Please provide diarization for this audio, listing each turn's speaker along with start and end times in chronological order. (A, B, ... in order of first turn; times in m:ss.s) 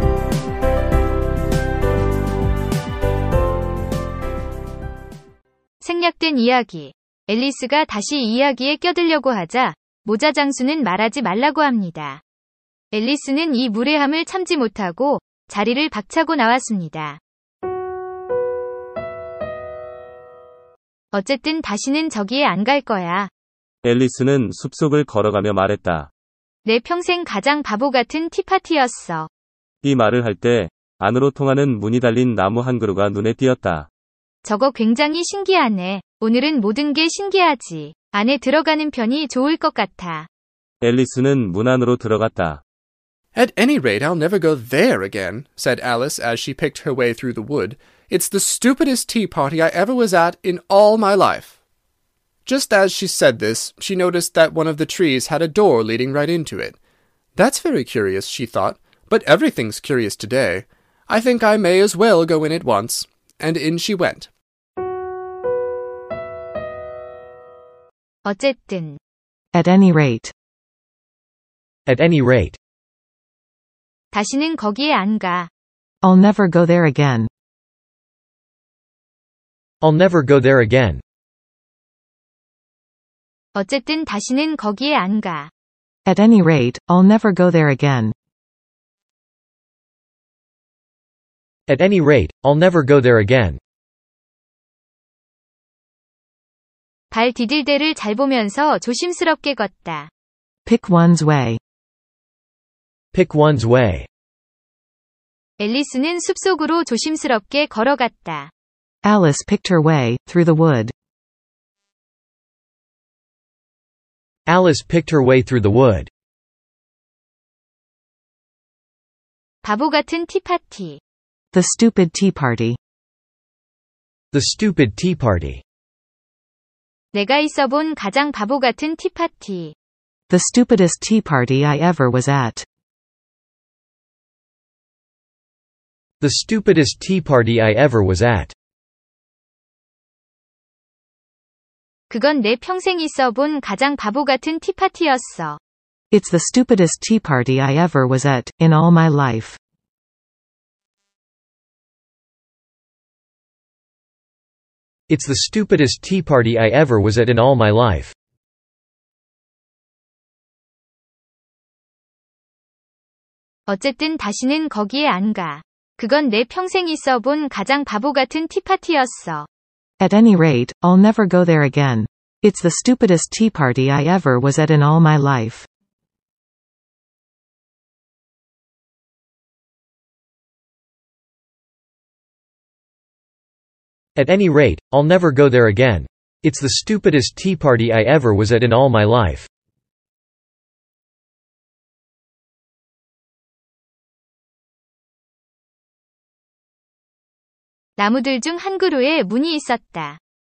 0:05.8-0:12.2 A
0:12.9-0:17.2 A
0:21.1-0:23.3 A
0:23.8-0:26.1 B
0:26.6-0:29.3 A
0:29.8-0:33.9 B
0:34.4-0:40.3 A
0:40.8-0:42.6 B
0:43.3-0:51.5 C
0:52.4-0:56.8 C
0:57.4-1:04.3 C
1:08.2-1:09.0 A
1:09.5-1:10.3 D
1:11.9-1:12.6 E
1:14.1-1:15.5 A
1:16.0-1:17.3 D
1:19.8-1:21.0 E
1:23.5-1:25.5 A
1:26.1-1:28.1 D
1:31.7-1:33.6 E
1:37.1-1:40.1 A
1:40.6-1:41.6 D
1:43.1-1:44.1 E
1:45.6-1:48.5 A
1:49.0-1:50.9 D
1:54.5-1:56.1 E
1:59.6-2:01.0 A
2:01.5-2:02.8 D
2:04.3-2:05.6 E
2:07.1-2:09.7 A
2:10.3-2:12.6 D
2:16.2-2:18.5 E
2:22.1-2:25.6 A
2:26.1-2:29.6 D
2:35.1-2:38.1 E
2:43.7-2:49.5 A
2:50.0-2:55.7 D
3:04.2-3:09.5 E
3:18.0-3:20.2 A